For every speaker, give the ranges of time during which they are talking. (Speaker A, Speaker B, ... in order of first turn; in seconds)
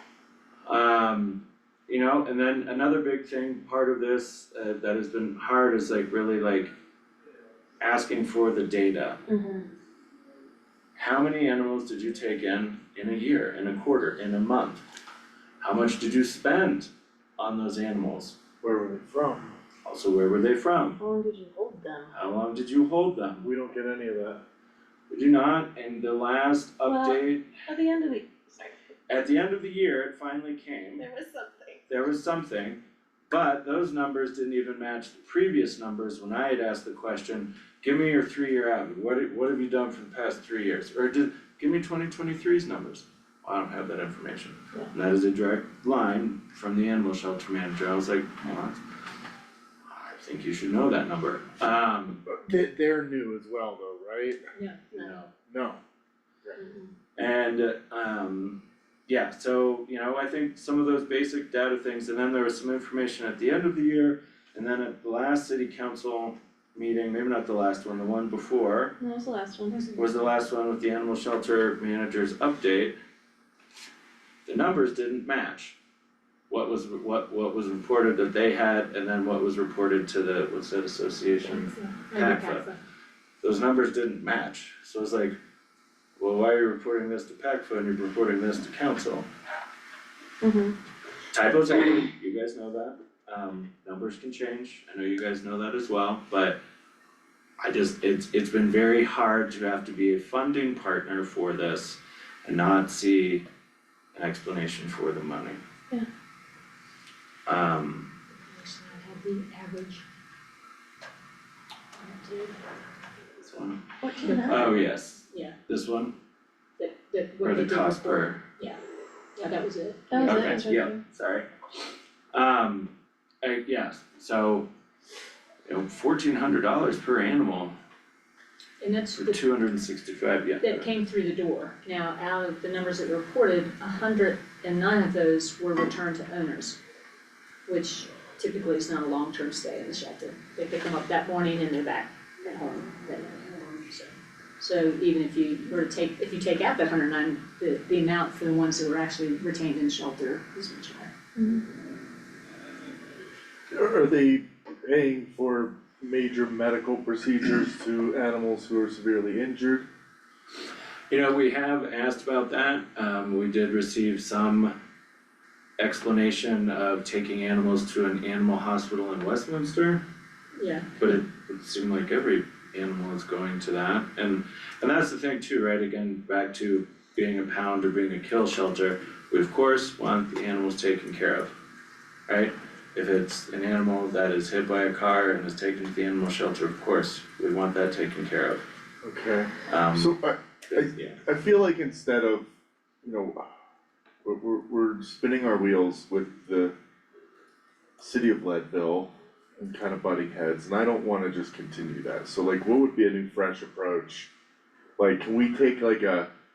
Speaker A: 0.7-6.7, 7.8-9.2, 10.9-14.8, 15.6-18.4, 19.8-21.0, 22.1-23.5, 25.1-27.5, 29.1-31.0, 31.9-32.8, 33.3-48.8, 49.9-52.2, 54.9-55.3, 57.1-69.0, 70.0-72.9, 74.5-75.8, 76.5-82.7, 83.4-85.3, 86.2-89.2, 91.3-96.6, 97.6-103.4, 104.1-105.6, 107.5-108.1, 113.4-113.8, 114.5-116.1, 117.4-118.4, 120.2-121.5, 122.3-124.7, 125.7-127.7, 129.2-130.9, 161.1-164.7, 165.8-170.0, 171.0-181.5, 182.3-188.6, 189.7-190.1, 190.7-191.2
Speaker B: 9.3-9.7, 21.0-22.1, 26.8-28.7, 31.0-31.8, 56.6-56.9, 69.0-69.8, 90.4-90.7, 114.0-114.8, 120.1-121.0, 151.4-151.6
Speaker C: 18.6-19.6, 23.4-24.4, 52.2-54.4, 55.3-55.8, 153.7-159.8, 189.0-192.5, 193.0-193.5, 194.2-196.7, 198.0-204.3, 205.0-206.3
Speaker D: 54.5-54.8, 69.7-70.0, 81.5-82.8, 108.4-110.0, 112.0-112.6, 114.2-114.7, 115.2-115.5, 116.8-118.8, 119.4-120.6, 128.8-129.4, 130.6-136.8, 137.7-151.1, 170.6-170.9